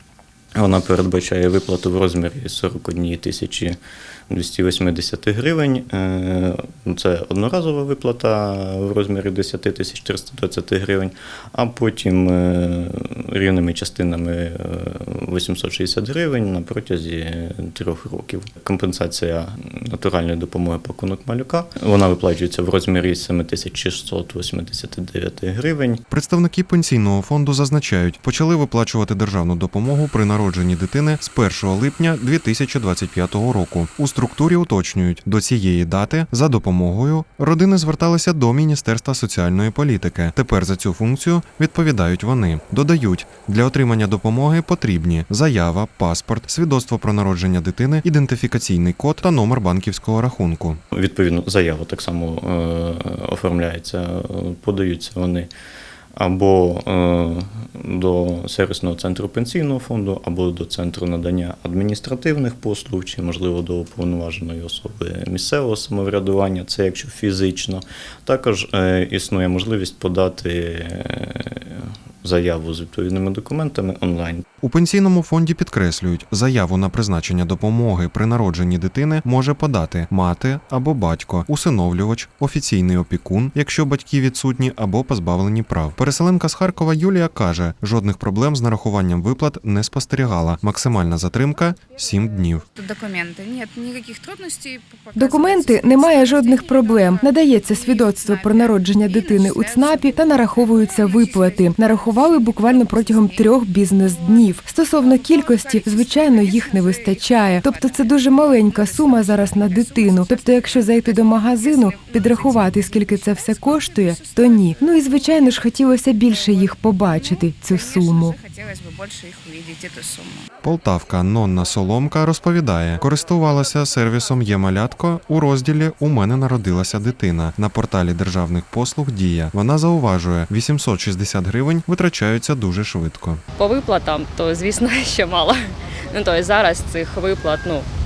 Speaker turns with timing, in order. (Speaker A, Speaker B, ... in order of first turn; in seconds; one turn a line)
Speaker A: 0.6-3.8
Speaker A: 4.3-26.0
Speaker B: 26.1-50.8
Speaker A: 50.9-55.5
Speaker A: 56.2-74.5
Speaker B: 74.6-92.7
Speaker C: 92.8-104.5
Speaker D: 95.2-118.4
Speaker C: 105.0-115.6
Speaker C: 116.3-120.5
Speaker B: 120.6-133.4
Speaker E: 133.6-137.9